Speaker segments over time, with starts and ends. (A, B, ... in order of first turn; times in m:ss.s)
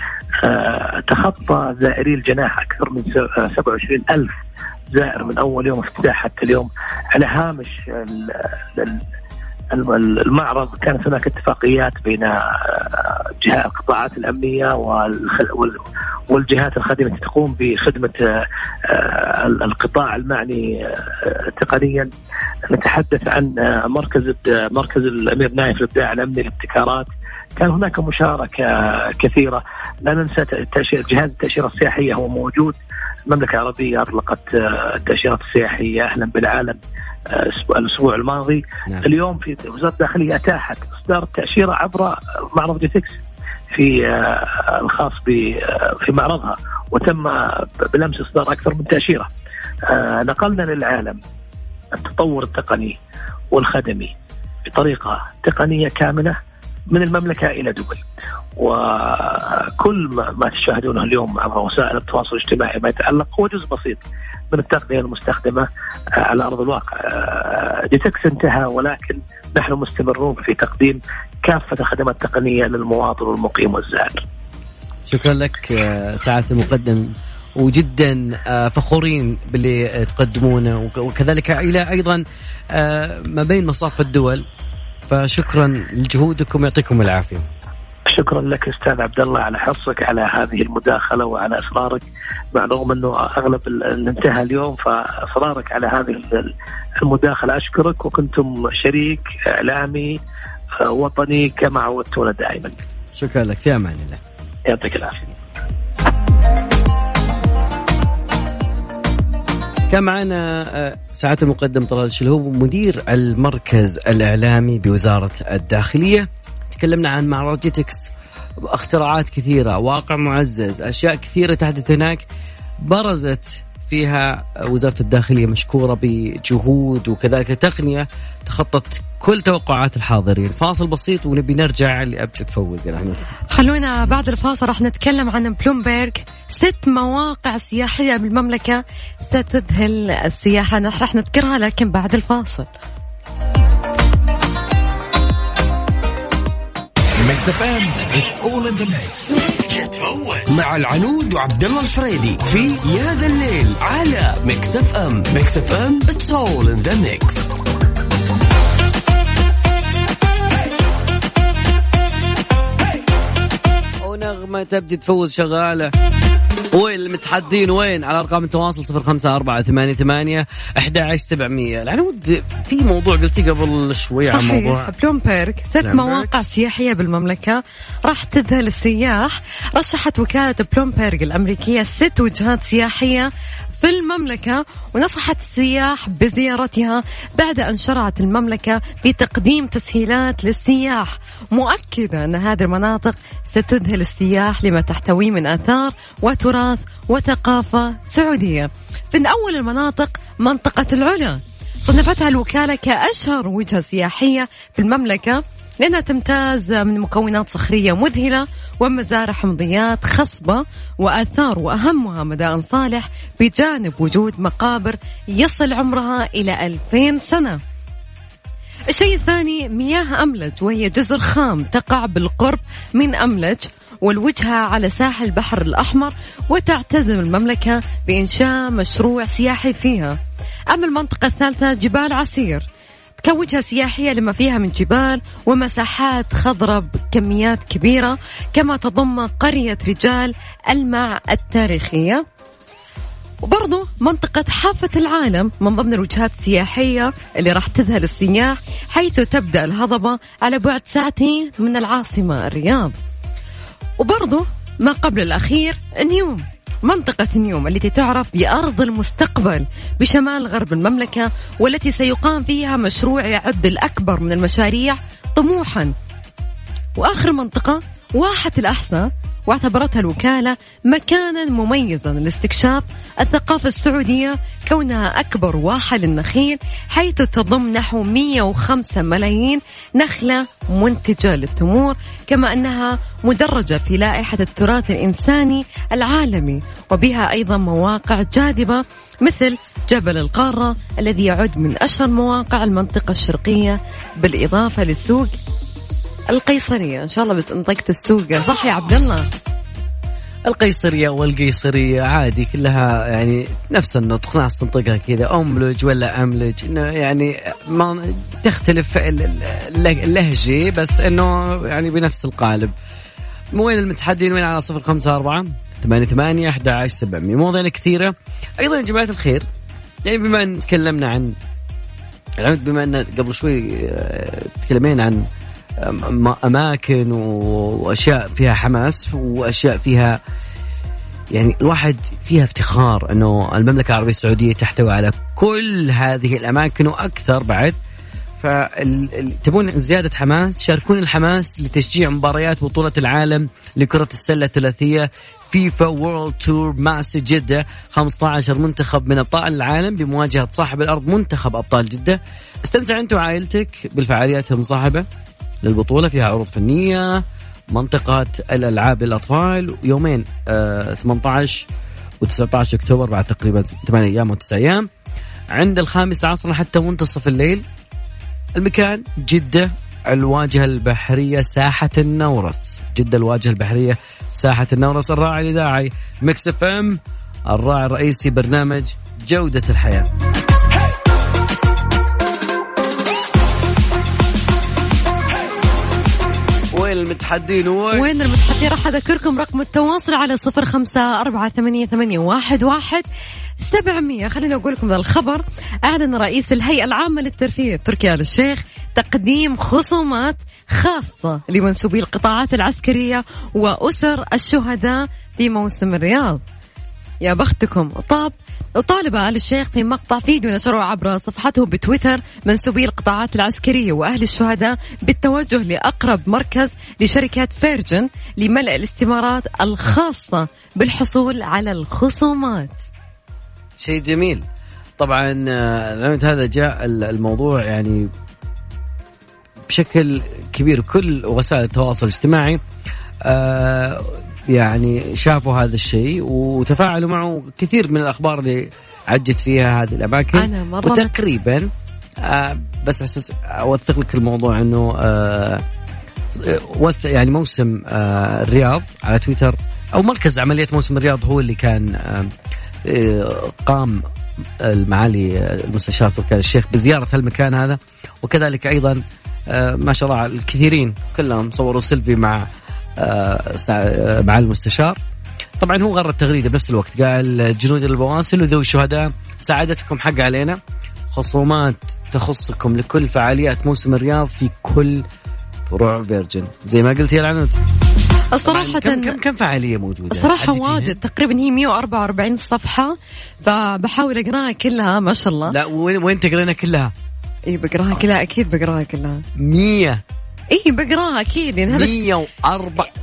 0:00.4-0:04.3 A
0:04.9-0:09.0 A
0:09.7-0:22.1 A
0:22.7-0:43.2 A
0:43.7-0:49.3 A
0:49.9-0:51.2 A
0:51.9-0:53.0 A
0:53.5-0:54.1 A
0:54.7-0:56.4 A
0:56.9-0:58.0 A
0:58.6-1:14.2 A
1:15.1-1:24.4 B
1:25.1-1:27.4 B
1:28.1-1:40.2 A
1:40.8-1:42.7 A
1:43.1-1:44.2 B
1:44.7-1:45.3 A
1:49.9-2:02.2 B
2:02.8-2:13.3 B
2:13.5-2:22.7 C
2:27.2-2:29.3 D
2:29.5-2:37.5 E
2:44.0-2:45.9 B
2:46.7-2:54.9 B
2:54.3-3:37.6 C
2:55.8-2:56.4 B
3:38.9-3:50.2 C
3:50.7-3:52.6 C
3:53.2-4:02.2 C
4:03.4-4:12.9 C
4:14.0-4:25.9 C
4:27.0-4:55.3 C
4:56.3-4:59.2 C
5:00.4-5:12.7 B
5:13.5-5:19.4 B
5:20.0-5:21.4 B
5:22.4-5:25.2 B
5:25.8-5:30.2 B
5:31.3-5:37.8 B
5:38.4-5:55.0 B
5:55.6-6:01.6 B
6:02.2-6:04.9 B
6:05.5-6:07.6 B
6:08.6-6:20.1 B
6:26.7-6:28.1 B
6:27.9-6:33.0 C
6:33.6-6:46.4 C
6:47.2-7:02.8 C
7:03.8-7:04.4 B
7:05.0-7:08.1 B
7:09.7-7:12.6 B
7:13.2-7:21.7 B
7:20.3-7:21.1 C
7:22.2-7:25.6 B
7:26.4-7:32.3 B
7:32.8-7:34.1 B
7:34.6-7:45.0 B
7:45.6-7:50.6 B
7:51.1-7:55.0 B
7:55.7-7:57.6 B
7:58.3-7:59.2 C
7:58.4-8:01.0 B
8:00.1-8:05.5 C
8:05.5-8:06.9 B
8:07.5-8:09.2 C
8:09.4-8:10.0 B
8:10.5-8:12.1 C
8:11.7-8:12.9 B